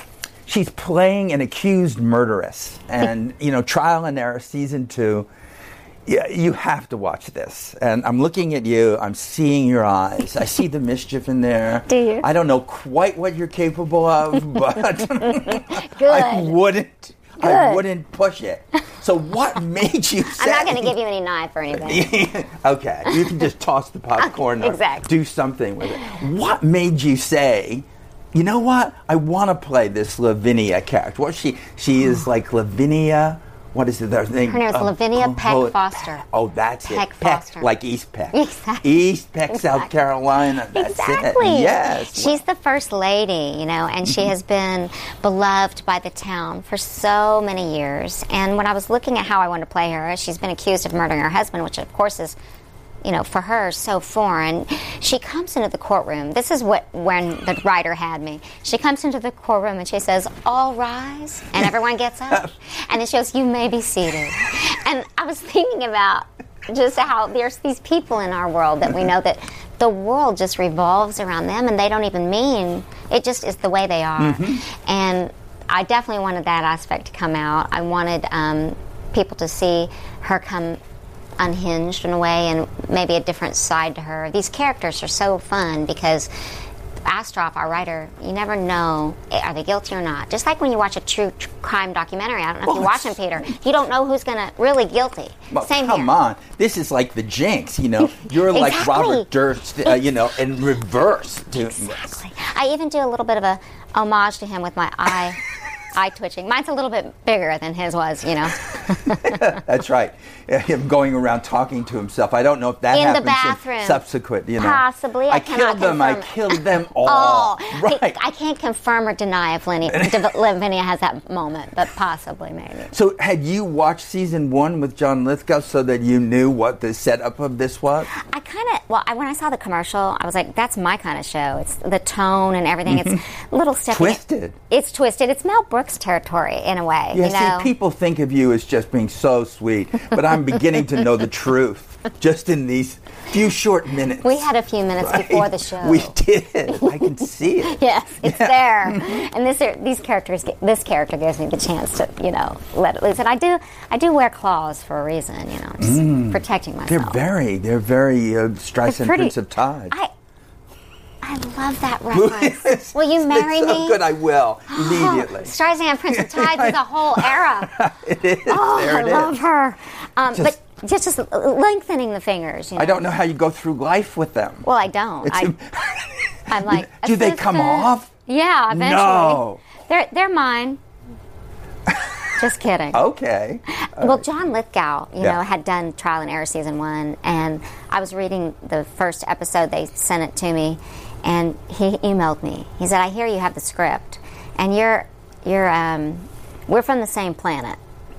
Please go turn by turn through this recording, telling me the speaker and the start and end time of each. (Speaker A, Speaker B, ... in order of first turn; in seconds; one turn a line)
Speaker A: 0.5-5.3
Speaker A: 6.0-20.9
Speaker B: 11.9-12.2
Speaker B: 15.2-16.6
Speaker B: 17.4-17.8
Speaker B: 20.3-22.1
Speaker A: 21.7-42.4
Speaker B: 23.1-23.4
Speaker B: 24.2-25.1
Speaker B: 34.5-36.2
Speaker B: 36.8-37.7
Speaker B: 38.3-39.9
Speaker B: 40.7-52.4
Speaker B: 53.0-80.8
Speaker A: 74.2-74.6
Speaker B: 81.4-86.3
Speaker B: 87.0-96.1
Speaker A: 92.6-93.4
Speaker A: 95.5-102.2
Speaker B: 98.5-99.3
Speaker B: 101.6-105.4
Speaker B: 105.9-109.6
Speaker A: 109.3-118.2
Speaker B: 112.9-114.0
Speaker B: 114.6-122.9
Speaker A: 119.8-120.3
Speaker A: 122.9-128.1
Speaker B: 128.1-137.7
Speaker A: 132.9-133.2
Speaker A: 133.9-134.5
Speaker A: 137.1-144.5
Speaker B: 144.2-146.2
Speaker A: 145.0-149.1
Speaker B: 146.7-157.2
Speaker A: 155.8-159.9
Speaker B: 158.8-159.3
Speaker B: 161.2-164.0
Speaker A: 162.1-165.5
Speaker B: 164.7-167.8
Speaker A: 166.1-169.4
Speaker B: 168.4-173.1
Speaker A: 172.8-174.7
Speaker B: 174.6-175.6
Speaker A: 175.2-178.1
Speaker B: 176.5-180.8
Speaker A: 178.7-179.6
Speaker B: 182.4-183.0
Speaker A: 182.9-184.2
Speaker B: 183.7-197.8